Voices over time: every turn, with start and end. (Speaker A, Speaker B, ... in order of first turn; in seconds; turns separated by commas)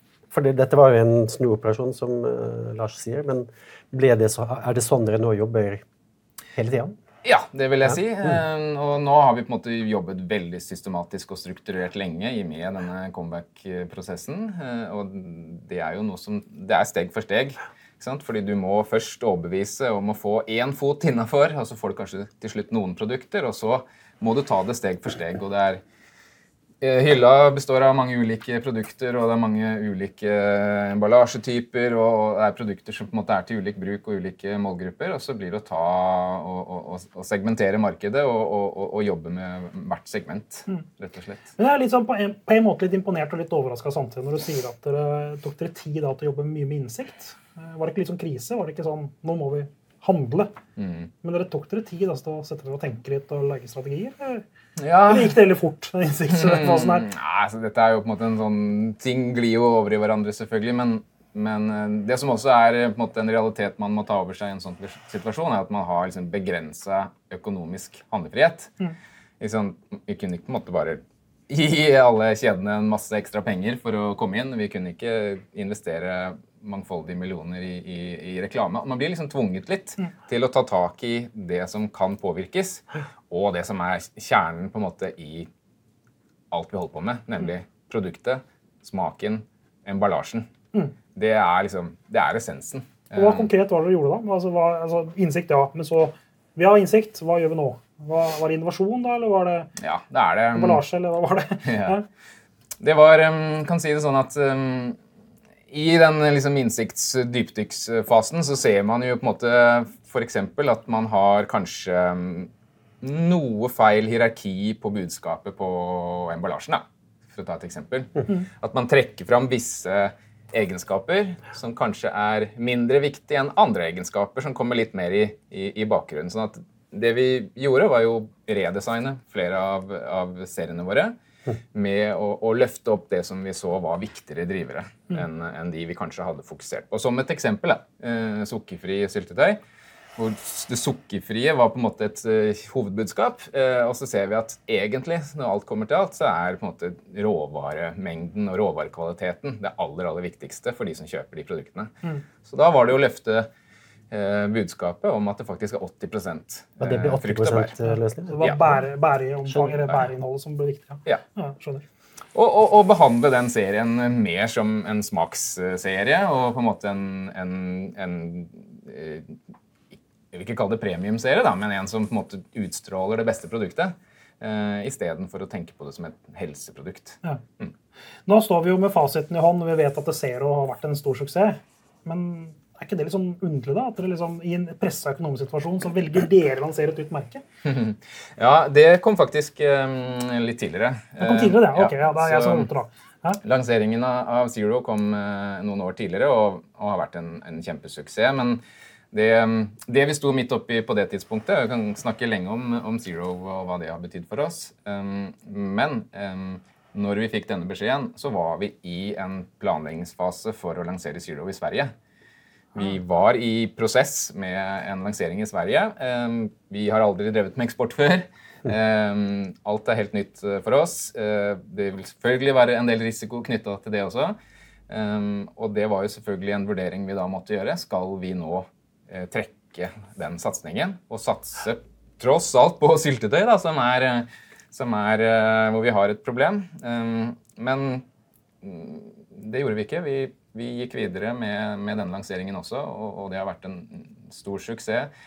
Speaker A: 0.3-5.8, Speaker A: 6.5-7.0, Speaker B: 7.2-25.8, Speaker B: 26.8-41.5, Speaker C: 41.6-50.5, Speaker B: 50.8-51.1, Speaker C: 51.2-54.5, Speaker B: 54.8-55.4, Speaker C: 55.1-57.1, Speaker B: 56.3-68.8, Speaker B: 69.4-85.5, Speaker B: 86.5-90.5, Speaker B: 91.2-93.5, Speaker C: 93.2-99.7, Speaker B: 99.8-100.8, Speaker C: 100.5-102.0, Speaker B: 101.7-102.0, Speaker B: 102.8-105.0, Speaker B: 105.7-112.5, Speaker B: 113.0-131.2, Speaker B: 131.7-139.6, Speaker B: 140.2-153.5, Speaker B: 154.1-157.7, Speaker A: 156.8-158.6, Speaker C: 157.8-161.8, Speaker B: 158.4-158.8, Speaker B: 162.3-169.4, Speaker B: 170.3-177.7, Speaker C: 178.3-187.4, Speaker B: 187.6-192.7, Speaker C: 191.2-193.4, Speaker B: 193.4-198.6, Speaker B: 199.1-211.9, Speaker B: 212.7-224.4, Speaker B: 224.9-238.1, Speaker B: 238.6-245.1